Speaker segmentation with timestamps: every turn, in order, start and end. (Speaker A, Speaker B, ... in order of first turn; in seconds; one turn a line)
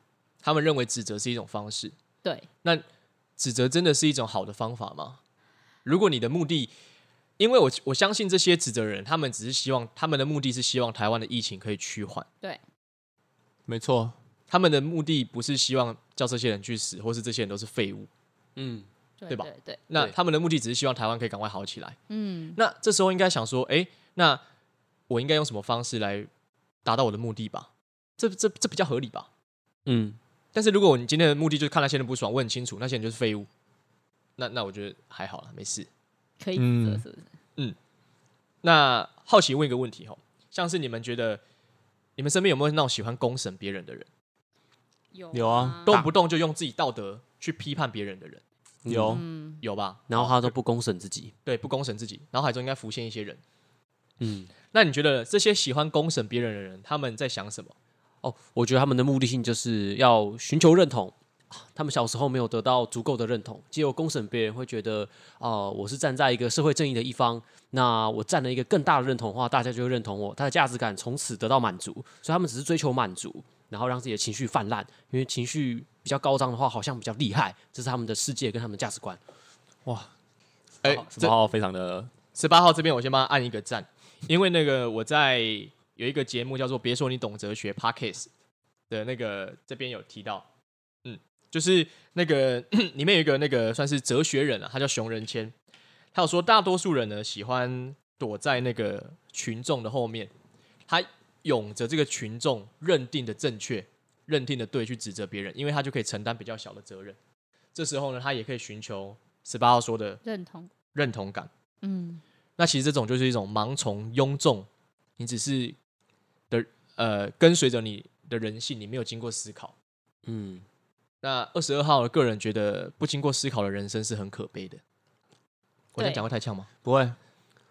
Speaker A: 0.4-2.0
Speaker A: 3.4-5.2
Speaker A: 5.8-6.7
Speaker A: 7.4-12.3
Speaker B: 13.7-14.2
Speaker A: 14.5-18.1
Speaker C: 18.6-18.9
Speaker D: 19.2-19.8
Speaker A: 19.3-22.0
Speaker D: 22.1-22.6
Speaker A: 22.6-24.4
Speaker A: 25.1-26.3
Speaker A: 26.9-29.3
Speaker C: 29.9-30.2
Speaker A: 30.5-33.5
Speaker A: 34.4-35.9
Speaker D: 36.4-37.3
Speaker B: 36.6-37.0
Speaker A: 38.6-41.4
Speaker A: 42.2-44.1
Speaker D: 45.1-46.0
Speaker B: 45.3-46.1
Speaker A: 45.9-48.4
Speaker C: 48.9-49.2
Speaker B: 48.9-49.2
Speaker D: 49.0-49.6
Speaker A: 49.6-50.5
Speaker C: 50.1-51.3
Speaker A: 51.5-53.4
Speaker C: 54.2-54.5
Speaker A: 54.7-57.8
Speaker C: 58.2-79.2
Speaker B: 79.8-80.1
Speaker A: 80.8-81.3
Speaker B: 80.8-82.1
Speaker A: 82.3-88.3
Speaker A: 88.9-90.5
Speaker A: 91.0-95.5
Speaker A: 96.1-100.3
Speaker A: 100.9-107.2
Speaker A: 107.8-110.2
Speaker D: 110.2-110.7
Speaker A: 110.9-111.5
Speaker D: 111.8-112.2
Speaker A: 112.6-115.8
Speaker A: 116.5-119.8
Speaker C: 120.2-120.7
Speaker A: 121.2-124.8
Speaker A: 126.0-126.7
Speaker D: 126.0-126.2
Speaker B: 126.8-127.2